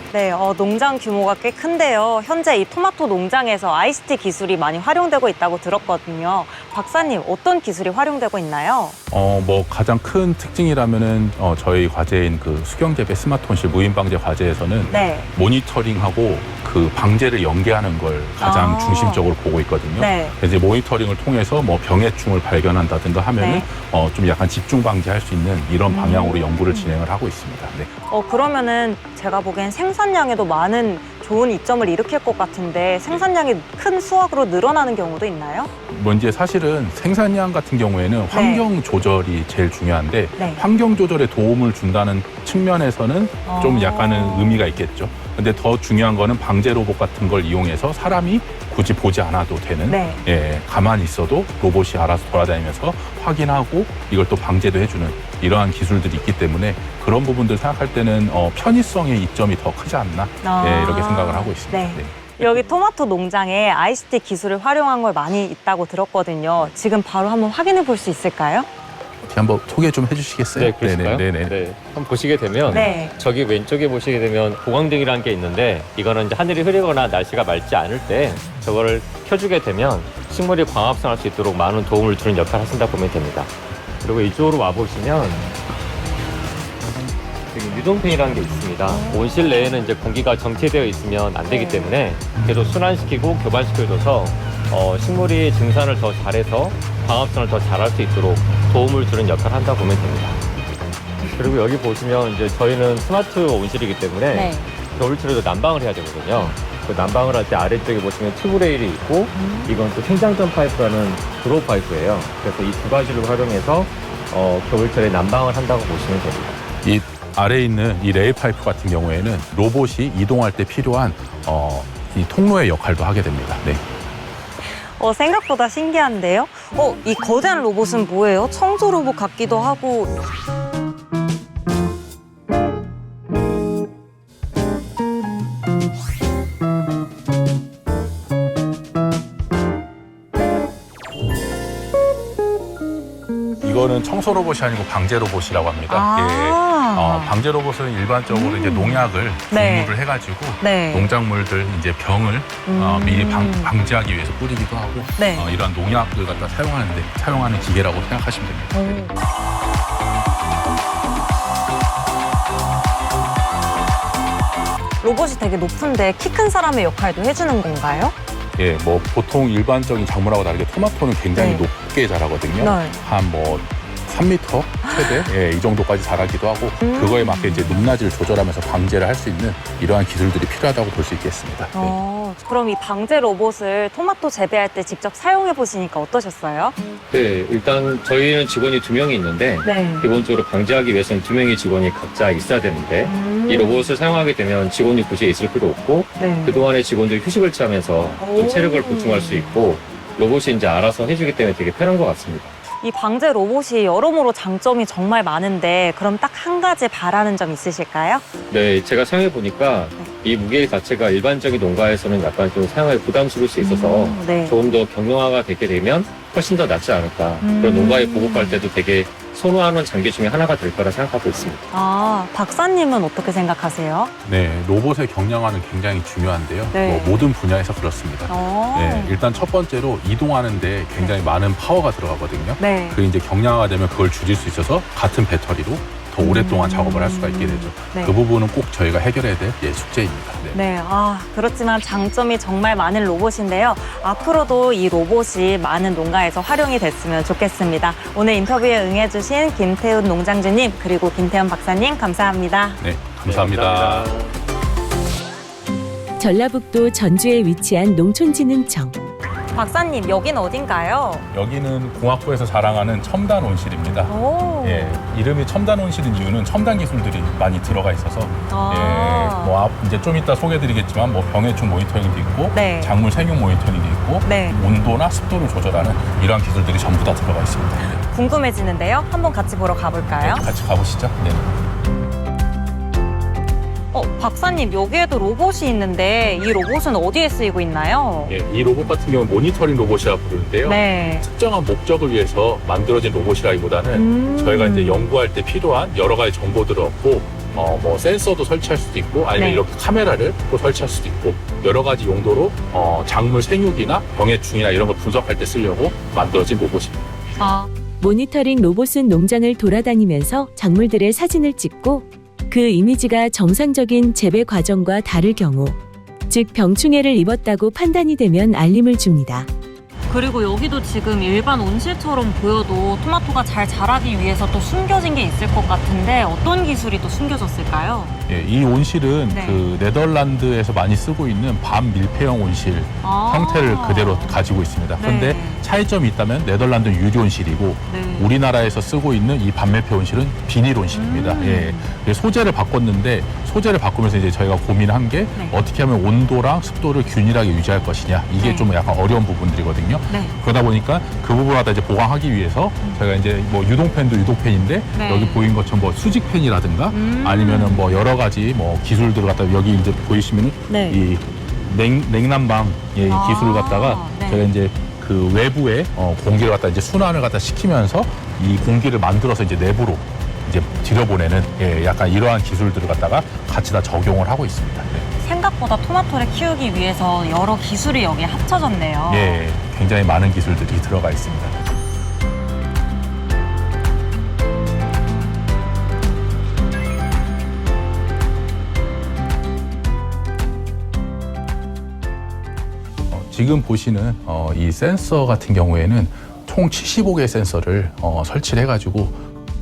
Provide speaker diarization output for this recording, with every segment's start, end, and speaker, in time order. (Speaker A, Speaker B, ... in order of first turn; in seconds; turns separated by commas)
Speaker A: 0.1-9.0, Speaker B: 9.1-27.9, Speaker A: 14.9-15.3, Speaker A: 18.4-19.2, Speaker A: 19.9-20.4, Speaker A: 23.4-23.7, Speaker A: 25.9-27.0, Speaker A: 28.1-35.7, Speaker B: 35.9-62.4, Speaker A: 38.3-38.6, Speaker A: 43.5-44.7, Speaker A: 49.9-50.2, Speaker A: 60.4-68.7, Speaker B: 69.2-71.5, Speaker C: 70.5-85.5, Speaker B: 72.6-72.9, Speaker A: 72.7-73.1, Speaker C: 87.5-100.4, Speaker A: 88.9-89.8, Speaker A: 91.5-91.9, Speaker A: 101.2-101.5, Speaker C: 101.3-116.6, Speaker A: 104.3-104.7, Speaker A: 109.3-109.7, Speaker B: 116.8-123.8, Speaker A: 125.0-130.1, Speaker B: 143.6-159.1, Speaker A: 145.9-147.3, Speaker A: 148.3-149.9, Speaker A: 150.6-151.1, Speaker A: 152.7-153.7, Speaker A: 155.2-155.5, Speaker A: 158.7-159.1, Speaker A: 165.0-168.1, Speaker B: 168.6-181.9, Speaker A: 171.3-171.6, Speaker A: 172.6-173.0, Speaker A: 174.8-175.3, Speaker A: 176.8-177.9, Speaker A: 181.7-186.7, Speaker C: 187.1-202.6, Speaker A: 189.6-190.1, Speaker A: 193.0-193.9, Speaker A: 196.2-196.7, Speaker A: 198.2-199.5, Speaker A: 202.8-208.3, Speaker C: 208.5-221.7, Speaker A: 213.6-214.6, Speaker A: 217.4-218.7, Speaker A: 221.7-224.1, Speaker B: 224.2-240.6, Speaker A: 226.7-227.3, Speaker A: 228.3-229.2, Speaker A: 232.6-233.0, Speaker A: 236.2-238.2, Speaker A: 240.5-252.8, Speaker B: 252.8-254.1, Speaker C: 253.2-254.3, Speaker D: 256.2-258.9, Speaker A: 259.5-261.2, Speaker B: 261.3-278.0, Speaker A: 264.1-265.0, Speaker A: 268.5-269.5, Speaker A: 272.5-272.9, Speaker A: 274.2-274.6, Speaker A: 278.1-280.4, Speaker B: 280.2-281.6, Speaker A: 283.9-288.3, Speaker B: 288.3-307.1, Speaker A: 290.6-291.2, Speaker A: 293.9-295.1, Speaker A: 299.3-299.6, Speaker A: 307.4-307.7, Speaker D: 308.0-315.8, Speaker D: 316.3-319.5, Speaker A: 320.1-328.2, Speaker B: 328.3-375.1, Speaker A: 329.3-329.6, Speaker A: 333.0-334.4, Speaker A: 335.0-335.6, Speaker A: 337.9-338.3, Speaker A: 340.9-341.9, Speaker A: 348.4-348.7, Speaker A: 350.1-350.4, Speaker A: 354.9-355.4, Speaker A: 356.9-358.1, Speaker A: 360.7-361.0, Speaker A: 363.0-364.5, Speaker A: 375.2-379.4, Speaker B: 379.1-381.6, Speaker B: 393.1-399.2